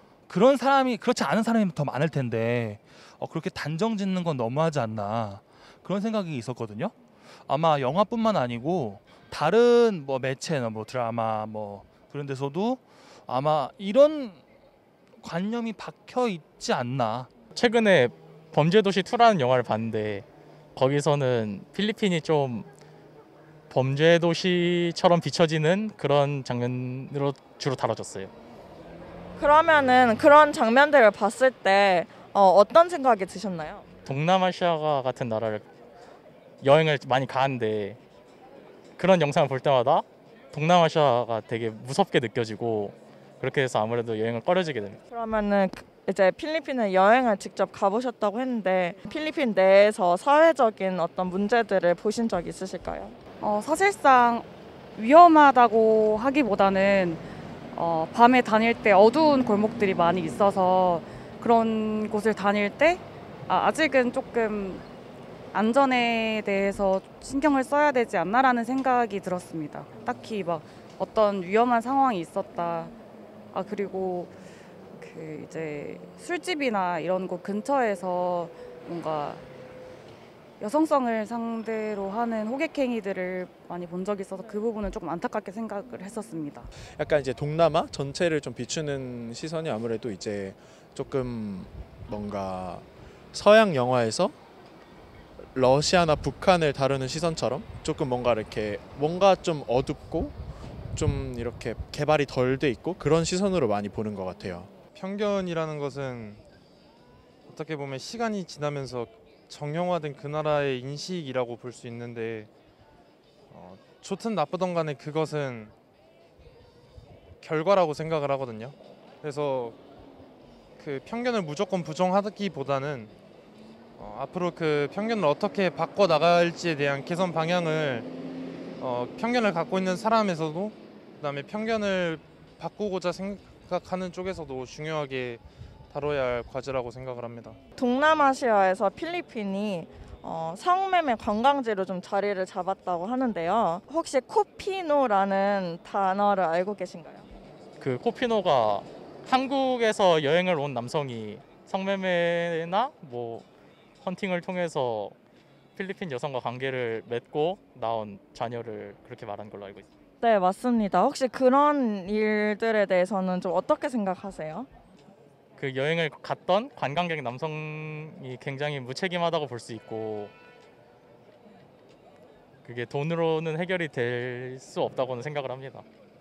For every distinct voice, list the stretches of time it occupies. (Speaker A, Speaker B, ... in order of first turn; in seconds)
Speaker A: 0.3-6.9, 7.5-14.4, 15.2-17.3
Speaker B: 17.5-20.2, 20.8-22.6, 23.7-28.3, 34.0-35.6, 36.6-38.0, 39.0-45.0, 147.8-153.4, 154.0-155.1, 155.8-159.9, 165.6-170.3, 172.6-175.8
Speaker C: 29.4-33.8, 45.1-53.1, 137.8-147.2, 160.2-164.7
Speaker D: 53.4-64.8, 65.5-72.9, 73.5-74.3, 75.0-79.4, 80.6-86.7
Speaker E: 87.0-94.3, 95.5-100.3, 101.0-104.7
Speaker F: 104.9-106.4, 107.5-112.5, 113.5-115.7, 117.4-119.8, 120.8-123.1, 124.0-128.1, 128.8-137.6